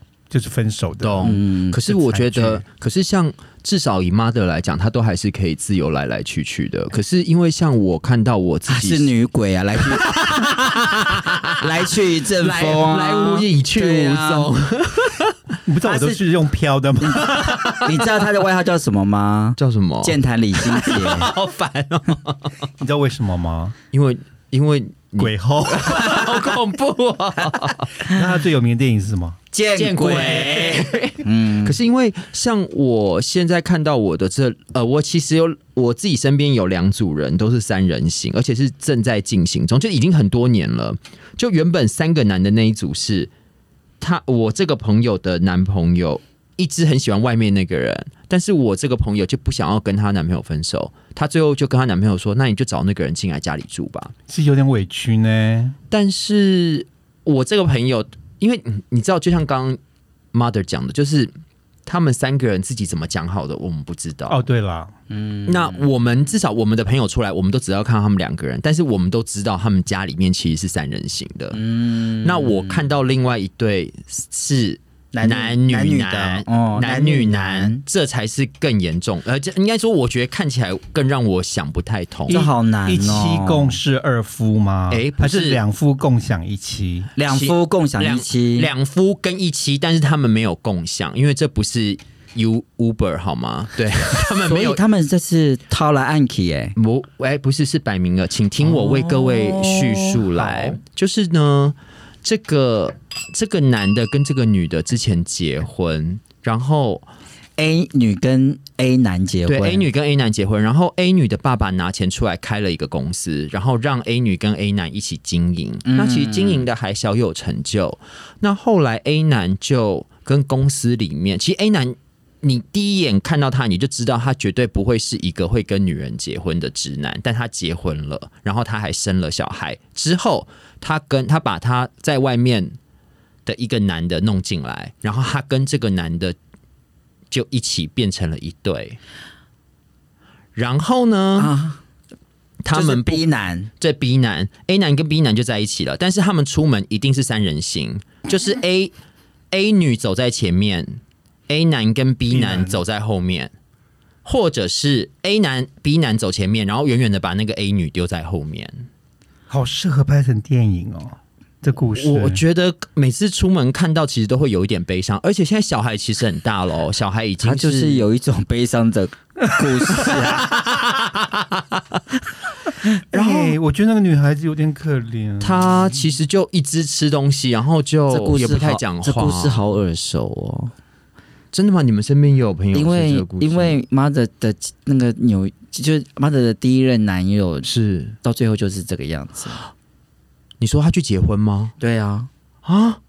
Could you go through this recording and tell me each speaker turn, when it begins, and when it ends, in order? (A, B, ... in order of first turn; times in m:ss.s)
0:00.3-0:02.6 A
0:01.0-0:09.1 B
0:01.2-0:01.8 C
0:08.7-0:10.4 C
0:09.8-0:15.4 B
0:11.6-0:14.5 C
0:15.7-0:17.6 A
0:15.9-0:16.2 B
0:17.0-0:21.3 C
0:17.2-0:18.1 B
0:19.6-0:22.5 B
0:22.8-0:23.8 A
0:23.9-0:27.9 B
0:25.2-0:26.3 A
0:28.1-0:29.4 A
0:29.5-0:31.8 C
0:29.8-0:43.3 B
0:44.0-0:54.1 B
0:54.3-0:55.8 A
0:55.9-0:59.8 B
1:00.3-1:01.3 B
1:01.9-1:04.4 B
1:04.3-1:04.9 A
1:05.1-1:05.9 C
1:05.5-1:11.6 B
1:11.5-1:12.9 C
1:12.1-1:22.4 B
1:15.1-1:17.8 C
1:22.3-1:23.8 C
1:22.3-1:27.1 A
1:24.9-1:25.6 B
1:27.2-1:28.7 C
1:27.3-1:34.8 B
1:34.4-1:36.8 C
1:36.8-1:47.0 B
1:38.7-1:40.4 C
1:47.6-1:49.9 C
1:49.5-2:12.8 B
1:55.9-1:56.7 C
2:13.5-2:16.4 B
2:17.3-2:19.0 B
2:20.6-2:21.5 B
2:21.4-2:21.8 C
2:22.6-2:23.2 B
2:22.7-2:23.7 C
2:23.8-2:28.9 B
2:29.5-2:33.5 B
2:32.3-2:32.8 A
2:34.2-2:38.9 B
2:39.5-2:42.4 A
2:42.0-2:48.1 B
2:47.4-2:50.5 C
2:50.1-2:52.0 B
2:53.1-2:56.0 A
2:53.1-2:53.5 B
2:55.4-2:59.6 B
2:58.1-3:00.7 C
3:01.5-3:03.8 B
3:02.7-3:07.7 C
3:07.6-3:08.2 B
3:08.2-3:09.6 C
3:10.6-3:11.7 B
3:11.8-3:12.3 C
3:12.6-3:13.0 B